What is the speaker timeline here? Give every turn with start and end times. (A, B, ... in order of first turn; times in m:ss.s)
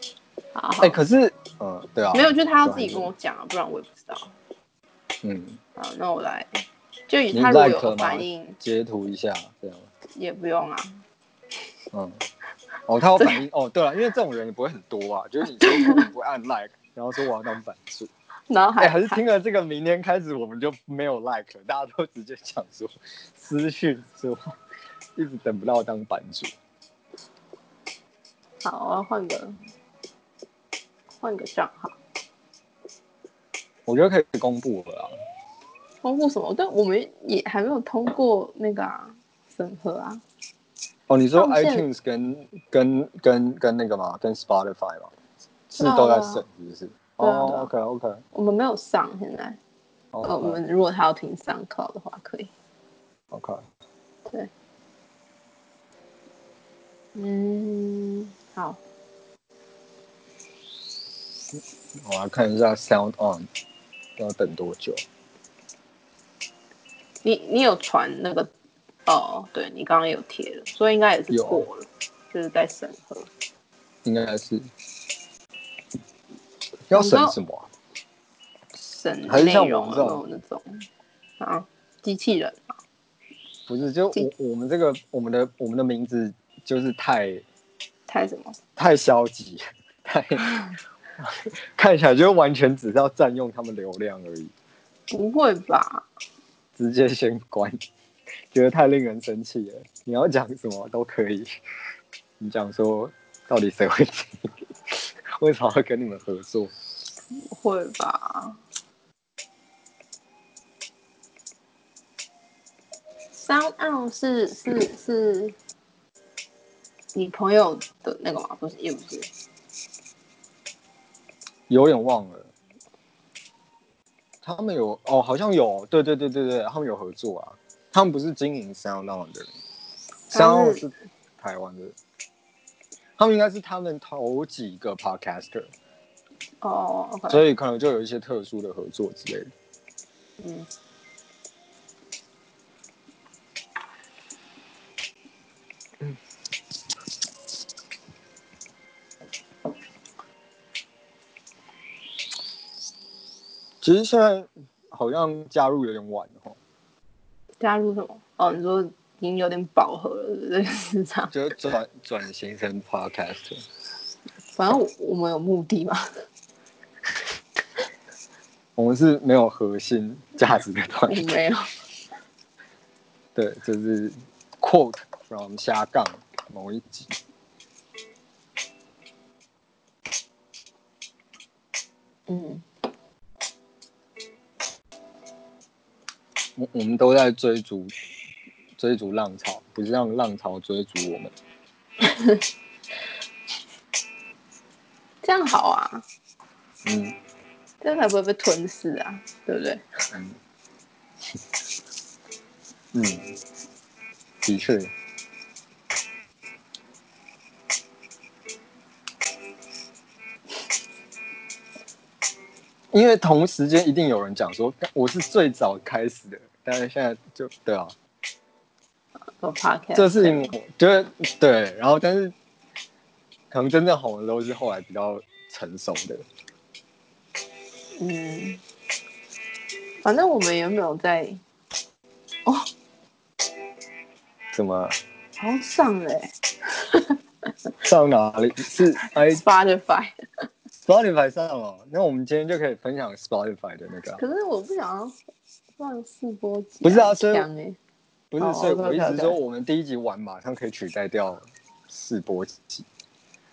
0:00.5-0:01.0 A
0:00.8-0:03.1 B
0:02.1-0:04.3 A
0:05.2-0:05.6 B
0:05.8-0:08.6 A
0:07.3-0:09.9 B
0:10.1-0:11.0 A
0:11.9-0:12.2 B
0:12.9-0:18.1 B
0:15.6-0:16.0 A
0:18.5-0:19.2 A
0:18.8-0:24.5 B
0:25.2-0:26.5 B
0:28.6-0:29.6 A
0:31.2-0:32.0 A
0:33.9-0:35.1 B
0:36.0-0:40.2 A
0:41.1-0:45.1 B
0:41.4-0:41.9 A
0:45.7-0:48.2 B
0:45.8-0:46.4 A
0:47.2-0:47.7 A
0:48.3-0:49.6 A
0:50.1-0:50.6 B
0:50.2-0:52.5 A
0:53.3-0:53.6 B
0:57.1-0:58.8 A
1:02.0-1:03.5 B
1:04.2-1:05.0 B
1:07.2-1:08.5 A
1:09.0-1:13.3 A
1:11.3-1:11.6 B
1:14.0-1:14.6 B
1:16.9-1:17.7 B
1:16.9-1:17.4 A
1:18.7-1:20.8 A
1:19.3-1:20.2 B
1:21.4-1:22.7 A
1:23.7-1:27.4 B
1:28.1-1:28.6 A
1:28.8-1:30.5 B
1:31.2-1:34.5 B
1:35.1-1:36.1 A
1:36.8-1:37.8 B
1:38.5-1:41.6 B
1:42.4-1:46.7 B
1:47.3-1:48.6 A
1:53.4-1:55.6 A
1:57.1-1:59.3 A
2:01.7-2:02.5 B
2:04.4-2:09.5 B
2:10.3-2:10.8 A
2:10.3-2:11.9 B
2:13.2-2:15.7 B
2:16.6-2:17.4 A
2:17.3-2:19.5 B
2:20.4-2:20.7 A
2:33.8-2:36.6 B
2:37.6-2:41.3 A
2:41.3-2:43.6 B
2:44.5-2:46.1 A
2:48.8-2:51.2 B
2:51.1-2:51.6 A
2:53.4-2:57.1 B
3:02.3-3:02.6 A
3:06.6-3:07.9 B
3:08.8-3:11.3 B
3:12.0-3:12.4 A
3:15.2-3:16.0 A
3:16.8-3:17.1 B
3:17.8-3:19.8 A
3:22.9-3:23.3 B
3:24.4-3:24.9 B
3:32.9-3:37.9 B
3:39.4-3:40.5 A
3:40.0-3:42.4 B
3:43.5-3:46.2 B
3:48.0-3:48.6 A
3:50.0-3:51.4 A
3:54.5-3:54.9 B
3:55.4-3:57.5 A
3:57.8-3:59.4 B
3:59.3-4:00.1 A
4:00.8-4:04.2 B
4:04.2-4:05.2 A
4:05.8-4:07.8 A
4:06.8-4:07.5 B
4:08.3-4:12.9 B
4:08.4-4:09.4 A